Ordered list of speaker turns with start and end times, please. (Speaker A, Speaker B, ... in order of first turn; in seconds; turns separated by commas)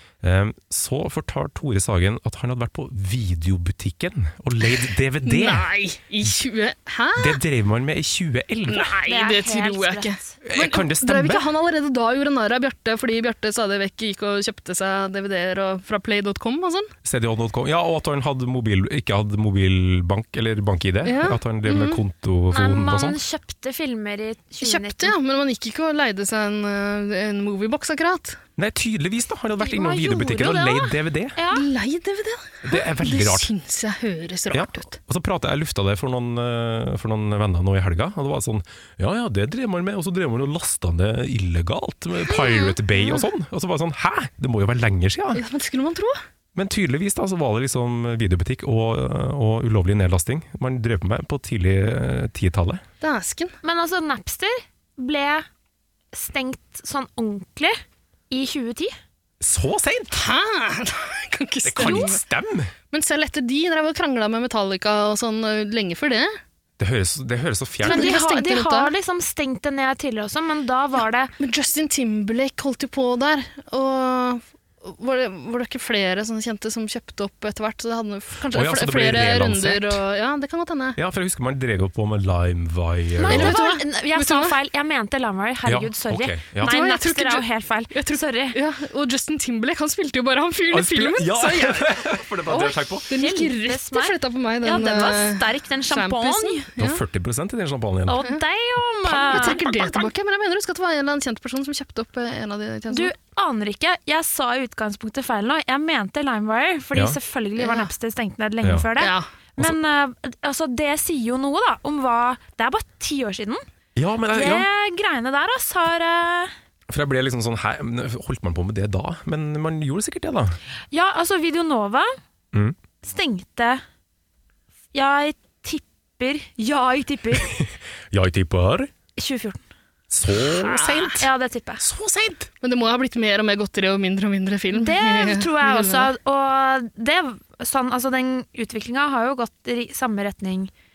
Speaker A: 0.2-5.7, Speaker B: 5.2-7.4, Speaker A: 7.2-8.9, Speaker B: 8.7-16.9, Speaker C: 9.1-10.3, Speaker A: 10.4-11.5, Speaker A: 17.0-23.2, Speaker B: 21.0-22.0, Speaker C: 22.5-25.1, Speaker B: 24.6-28.4, Speaker A: 28.6-31.4, Speaker C: 29.6-31.6, Speaker B: 31.5-34.9, Speaker A: 32.6-33.5, Speaker A: 34.5-45.4, Speaker C: 42.3-42.7, Speaker B: 45.3-46.2, Speaker A: 46.5-52.8, Speaker B: 53.0-53.5, Speaker C: 53.6-55.5, Speaker C: 56.1-57.8, Speaker C: 58.3-58.9, Speaker A: 59.4-60.3, Speaker B: 60.1-62.2, Speaker A: 61.6-62.7, Speaker C: 61.8-62.1, Speaker B: 62.9-66.3, Speaker A: 66.8-68.2, Speaker B: 67.8-68.9, Speaker C: 67.8-71.3, Speaker B: 71.4-81.0, Speaker A: 78.5-80.0, Speaker A: 81.0-83.6, Speaker C: 83.2-88.6, Speaker B: 83.3-84.5, Speaker A: 85.6-86.8, Speaker B: 86.6-91.9, Speaker A: 90.7-93.1, Speaker C: 92.5-96.6, Speaker B: 93.1-97.0, Speaker A: 96.8-98.2, Speaker C: 98.1-100.1, Speaker B: 99.1-103.1, Speaker A: 99.1-99.6, Speaker C: 102.9-113.6, Speaker B: 107.6-107.9, Speaker B: 109.0-109.2, Speaker A: 114.0-114.7, Speaker C: 114.3-116.5, Speaker A: 116.9-120.6, Speaker C: 120.9-122.1, Speaker C: 123.0-123.8, Speaker C: 124.9-127.5, Speaker A: 127.4-128.9, Speaker C: 129.2-129.6, Speaker A: 130.1-131.2, Speaker B: 130.5-131.2, Speaker C: 131.2-131.8, Speaker A: 131.8-132.5, Speaker B: 132.6-136.1, Speaker C: 134.7-140.7